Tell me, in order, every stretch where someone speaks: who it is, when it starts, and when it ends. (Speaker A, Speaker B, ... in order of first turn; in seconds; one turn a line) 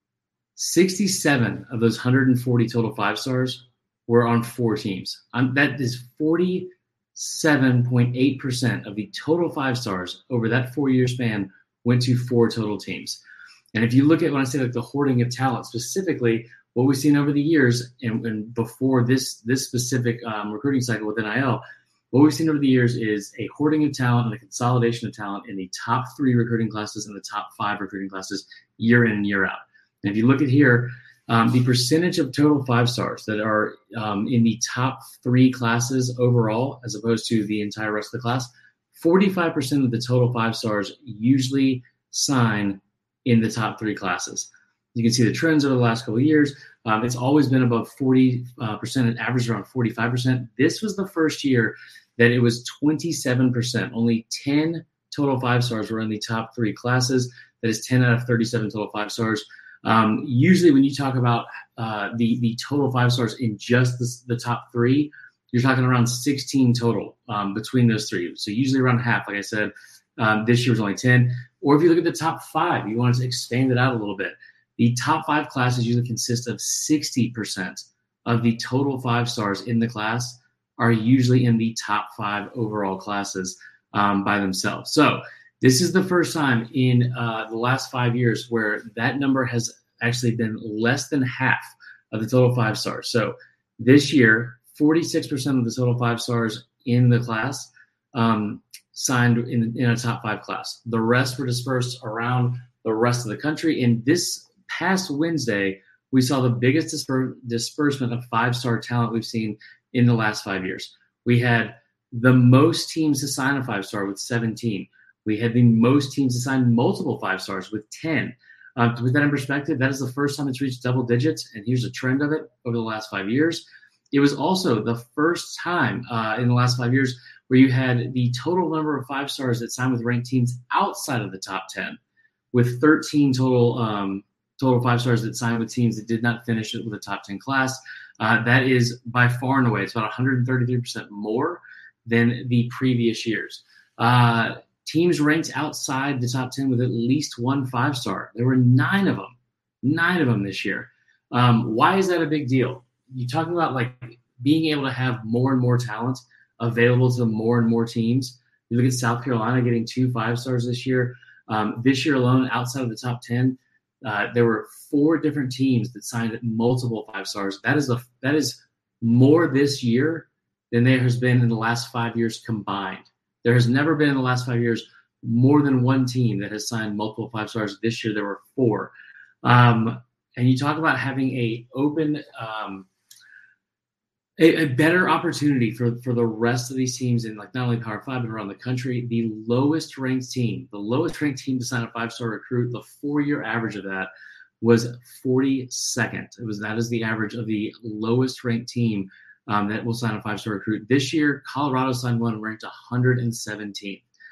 Speaker A: 0.6-13.2
Speaker A: 13.7-132.0
Speaker A: 132.5-178.9
Speaker A: 179.4-182.9
Speaker A: 184.4-194.1
Speaker A: 194.6-204.0